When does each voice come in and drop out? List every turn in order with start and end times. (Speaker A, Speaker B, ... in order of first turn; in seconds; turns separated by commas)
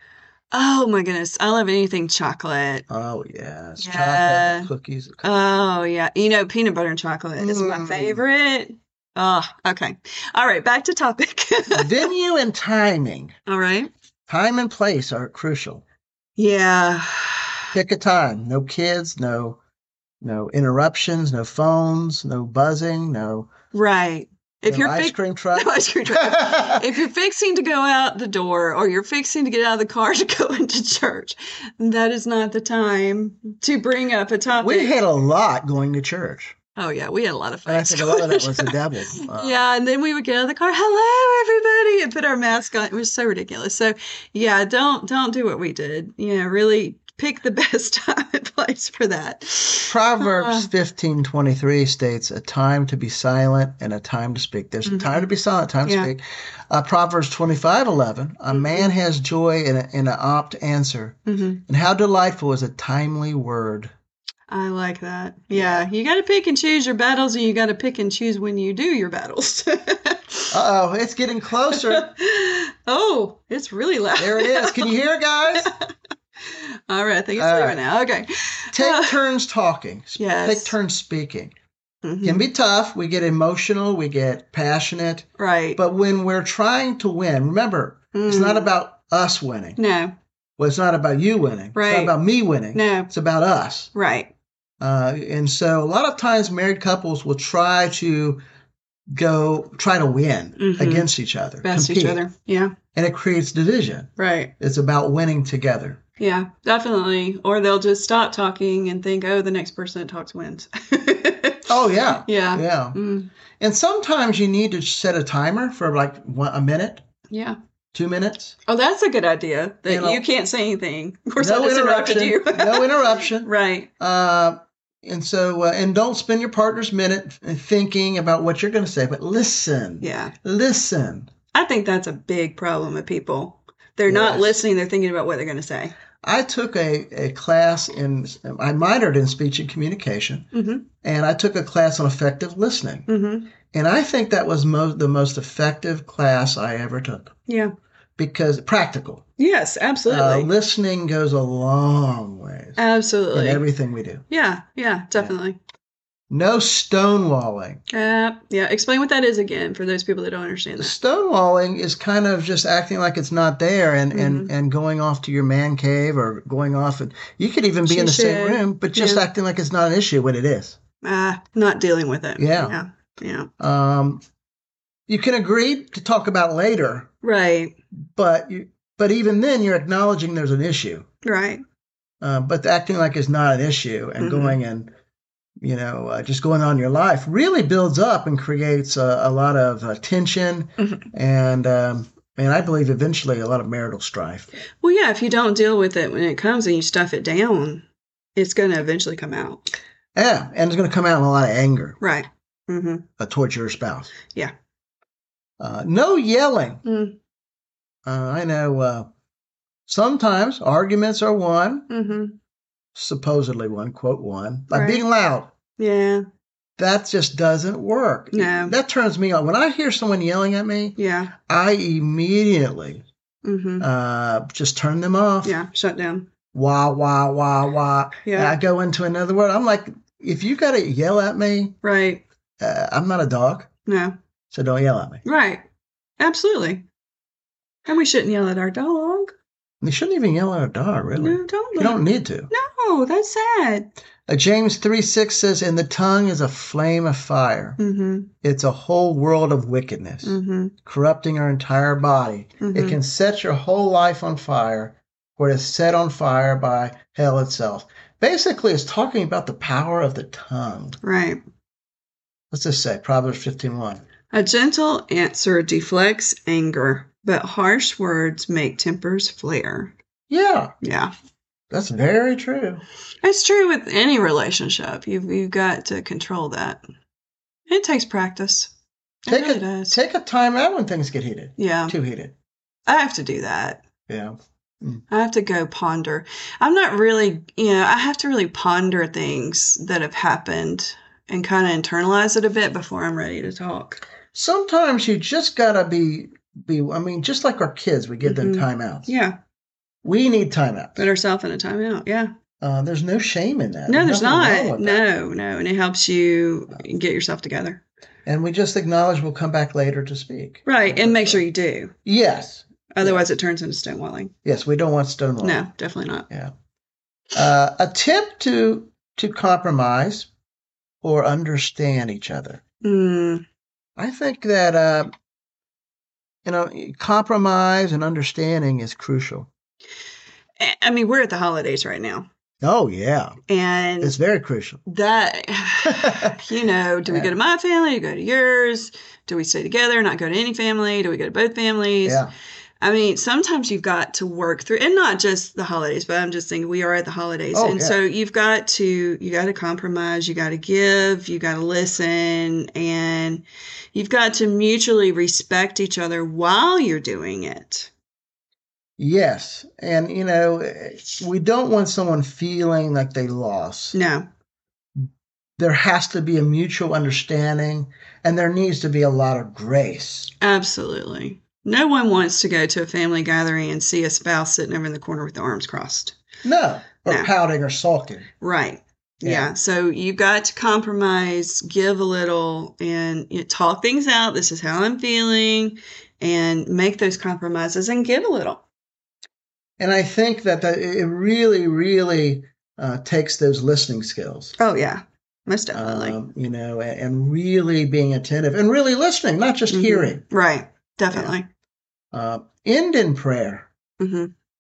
Speaker A: 0.5-2.9, Speaker B: 2.9-5.4, Speaker A: 3.8-4.7, Speaker A: 5.2-12.1, Speaker B: 7.4-8.2, Speaker B: 11.7-13.3, Speaker A: 13.5-13.9, Speaker B: 14.3-15.8, Speaker A: 16.4-17.7, Speaker B: 17.7-19.6, Speaker B: 20.2-23.5, Speaker A: 23.7-34.9, Speaker B: 24.7-26.9, Speaker B: 34.6-36.5, Speaker A: 36.8-50.7, Speaker B: 37.7-39.6, Speaker B: 49.9-63.9, Speaker A: 54.9-55.3, Speaker A: 55.8-56.1, Speaker A: 58.5-58.9, Speaker A: 61.3-61.6, Speaker A: 64.5-70.5, Speaker B: 65.5-65.9, Speaker B: 70.5-72.1, Speaker A: 71.7-74.9, Speaker B: 74.2-75.7, Speaker A: 76.5-79.2, Speaker B: 77.4-77.8, Speaker B: 78.7-81.5, Speaker A: 80.2-80.8, Speaker A: 82.0-82.5, Speaker B: 82.2-89.8, Speaker A: 85.4-85.8, Speaker A: 88.1-88.7, Speaker A: 89.8-90.2, Speaker B: 90.6-93.9, Speaker A: 91.7-92.2, Speaker A: 92.7-93.1, Speaker A: 93.9-94.3, Speaker B: 94.8-98.4, Speaker B: 99.1-102.2, Speaker A: 100.6-101.1, Speaker A: 101.6-102.8, Speaker B: 102.9-106.0, Speaker A: 104.2-104.5, Speaker A: 106.2-111.7, Speaker B: 111.7-113.0, Speaker A: 112.2-113.3, Speaker B: 113.6-117.0, Speaker A: 117.3-117.6, Speaker B: 117.9-118.5, Speaker A: 118.7-123.9, Speaker B: 119.9-120.2, Speaker B: 121.4-131.3, Speaker A: 130.0-130.3, Speaker A: 131.5-135.9, Speaker B: 134.1-134.6, Speaker B: 136.2-140.5, Speaker A: 140.5-140.9, Speaker B: 141.0-143.1, Speaker A: 143.1-143.5, Speaker B: 143.7-147.3, Speaker A: 147.5-147.7, Speaker B: 148.2-149.2, Speaker A: 149.4-150.5, Speaker B: 150.1-152.8, Speaker A: 152.8-153.6, Speaker B: 153.3-154.2, Speaker A: 154.3-155.6, Speaker B: 156.3-157.8, Speaker A: 157.9-160.9, Speaker B: 160.8-170.8, Speaker A: 164.1-164.5, Speaker A: 167.8-169.2, Speaker A: 171.0-173.5, Speaker B: 172.4-172.8, Speaker B: 173.6-174.2, Speaker B: 175.1-177.1, Speaker A: 177.2-177.8, Speaker B: 178.2-181.1, Speaker A: 181.2-181.6, Speaker B: 182.2-184.9, Speaker A: 184.2-184.6, Speaker B: 185.6-194.5, Speaker A: 190.8-191.1, Speaker A: 194.8-197.8, Speaker A: 198.4-199.6, Speaker B: 200.2-202.0, Speaker A: 202.0-203.1, Speaker B: 203.2-204.1, Speaker B: 205.6-206.8, Speaker A: 206.8-207.2, Speaker B: 208.1-209.1, Speaker B: 209.9-211.9, Speaker A: 211.9-212.4, Speaker B: 212.9-215.5, Speaker A: 214.7-215.0, Speaker A: 215.8-216.2, Speaker B: 216.8-223.0, Speaker A: 218.3-218.8, Speaker A: 221.0-221.3, Speaker A: 223.4-223.9, Speaker B: 223.8-225.6, Speaker A: 225.4-226.3, Speaker B: 226.5-231.8, Speaker A: 228.2-228.6, Speaker A: 231.8-232.2, Speaker B: 232.6-233.7, Speaker A: 233.9-234.2, Speaker B: 234.5-235.2, Speaker A: 235.2-235.6, Speaker A: 236.2-236.8, Speaker A: 237.9-239.3, Speaker B: 239.8-242.5, Speaker A: 241.2-243.9, Speaker B: 244.3-247.8, Speaker A: 247.8-248.3, Speaker B: 248.4-261.0, Speaker A: 250.2-250.8, Speaker A: 252.6-253.0, Speaker A: 261.0-261.4, Speaker B: 262.5-264.1, Speaker A: 264.3-269.9, Speaker B: 270.3-270.8, Speaker A: 270.8-271.1, Speaker B: 271.7-272.8, Speaker A: 273.2-276.8, Speaker A: 277.7-278.7, Speaker A: 279.2-280.0, Speaker B: 279.3-282.4, Speaker A: 281.6-282.0, Speaker A: 282.9-283.8, Speaker B: 284.1-285.0, Speaker A: 285.1-294.0, Speaker B: 294.3-299.1, Speaker A: 298.2-299.4, Speaker B: 300.0-301.1, Speaker A: 301.0-302.3, Speaker B: 302.6-305.0, Speaker A: 303.9-307.8, Speaker B: 308.3-311.4, Speaker A: 310.7-311.9, Speaker B: 312.1-313.3, Speaker A: 312.9-314.3, Speaker B: 314.4-315.6, Speaker A: 315.4-316.3, Speaker B: 317.3-320.3, Speaker B: 321.0-322.6, Speaker A: 322.8-323.4, Speaker B: 324.0-325.1, Speaker B: 326.4-329.5, Speaker A: 330.6-332.3, Speaker B: 332.6-333.4, Speaker A: 333.5-334.1, Speaker B: 334.0-334.8, Speaker A: 334.9-342.2, Speaker B: 335.9-336.4, Speaker B: 337.1-337.3, Speaker B: 342.1-342.3, Speaker A: 342.8-357.9, Speaker B: 347.5-348.0, Speaker B: 359.0-364.0, Speaker A: 363.9-364.3, Speaker B: 365.6-370.3, Speaker A: 370.4-376.2, Speaker B: 376.4-378.3, Speaker A: 378.4-388.6, Speaker B: 379.2-379.5, Speaker B: 389.8-394.5, Speaker A: 394.6-396.2, Speaker B: 395.7-400.2, Speaker A: 399.7-401.5, Speaker B: 401.1-401.4, Speaker B: 402.1-403.7, Speaker A: 404.0-404.3